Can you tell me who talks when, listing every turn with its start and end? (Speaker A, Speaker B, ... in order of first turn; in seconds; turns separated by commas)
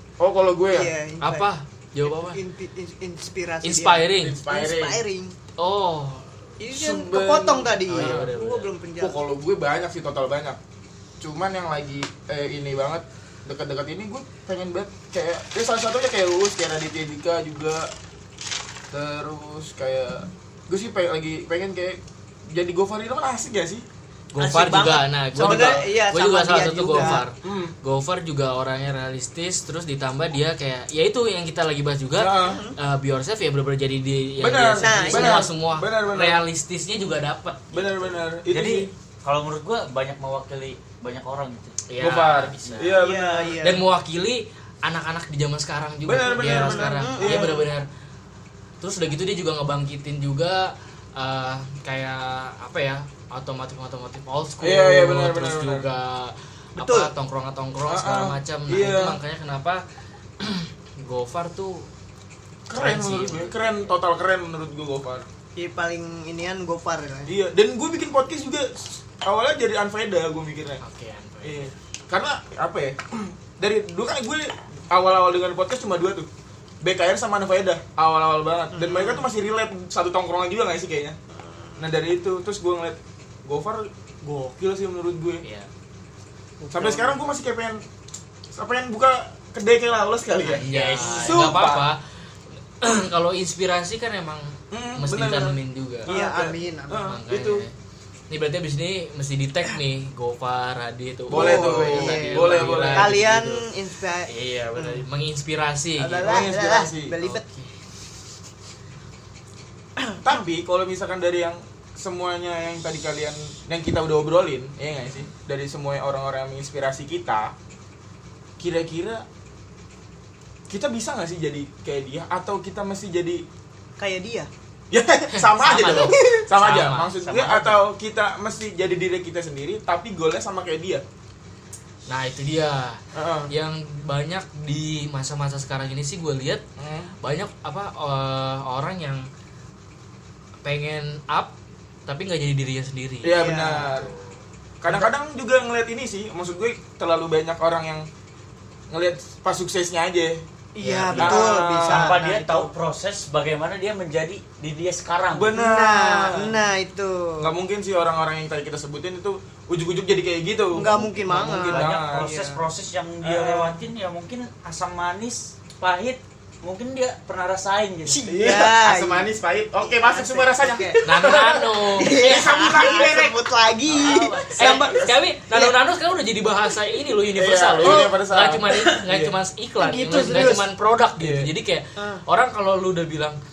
Speaker A: 0.2-0.9, Speaker B: 0.7-1.5, Speaker C: 1.2-2.4, Speaker B: 2.2-5.3, Speaker C: 3.6-4.4, Speaker A: 4.2-5.0, Speaker C: 5.6-6.3, Speaker B: 6.6-9.2, Speaker A: 6.7-8.3, Speaker C: 7.9-8.7, Speaker A: 9.0-10.6, Speaker A: 11.2-17.9, Speaker A: 18.9-23.8, Speaker C: 24.3-38.2, Speaker D: 24.4-25.7, Speaker B: 24.4-27.2, Speaker A: 27.0-27.7, Speaker A: 32.2-32.6, Speaker B: 32.4-32.8, Speaker A: 34.4-36.4, Speaker B: 34.8-35.5, Speaker A: 37.7-38.9, Speaker D: 38.5-41.8, Speaker C: 41.9-43.0, Speaker A: 42.0-43.6, Speaker B: 42.9-43.9, Speaker C: 43.6-47.9, Speaker A: 46.0-47.6, Speaker B: 46.2-47.7, Speaker C: 48.8-59.8, Speaker A: 54.6-55.9, Speaker B: 56.8-57.1, Speaker A: 57.9-59.2, Speaker C: 60.4-61.9, Speaker A: 62.7-65.3, Speaker C: 62.8-63.9, Speaker B: 65.6-67.3, Speaker A: 67.3-70.8, Speaker C: 70.8-71.7, Speaker A: 71.4-76.3, Speaker A: 76.8-81.2, Speaker B: 78.7-79.3, Speaker B: 81.3-81.9, Speaker A: 81.8-85.4, Speaker C: 85.4-85.7, Speaker B: 86.6-87.2, Speaker A: 86.7-87.8, Speaker A: 88.5-91.9, Speaker C: 90.5-92.0, Speaker B: 91.0-91.5, Speaker C: 92.8-96.1, Speaker A: 94.7-97.6, Speaker B: 96.1-97.1, Speaker C: 97.0-97.7, Speaker C: 98.3-103.7, Speaker A: 101.3-103.2, Speaker B: 101.3-105.0, Speaker C: 104.3-106.5, Speaker B: 106.0-107.5, Speaker A: 106.2-107.2, Speaker C: 107.2-107.7, Speaker A: 110.2-117.5, Speaker A: 118.6-119.2, Speaker A: 120.7-123.5, Speaker B: 124.0-124.5, Speaker A: 124.9-131.0, Speaker C: 125.3-127.2, Speaker B: 126.0-126.4, Speaker D: 127.2-127.8, Speaker C: 132.1-136.6, Speaker A: 133.1-133.5, Speaker A: 136.8-137.1, Speaker C: 137.2-139.3, Speaker C: 140.6-141.5, Speaker C: 142.1-144.3, Speaker A: 143.2-144.1, Speaker B: 143.3-144.0, Speaker A: 144.8-148.1, Speaker A: 148.9-150.4, Speaker B: 150.8-152.7, Speaker C: 150.8-151.6, Speaker A: 151.2-152.2, Speaker D: 151.9-155.5, Speaker A: 155.3-156.6, Speaker B: 155.5-157.5, Speaker A: 157.4-162.3, Speaker B: 160.7-162.6, Speaker D: 161.6-168.2, Speaker A: 163.2-163.8, Speaker B: 168.1-171.0, Speaker A: 168.2-173.4, Speaker C: 171.0-172.7, Speaker B: 171.9-175.8, Speaker C: 173.9-183.4, Speaker A: 174.0-175.1, Speaker A: 177.3-179.4, Speaker B: 177.8-178.2, Speaker B: 179.8-180.7, Speaker A: 180.1-180.6, Speaker A: 181.2-181.5, Speaker B: 182.0-182.2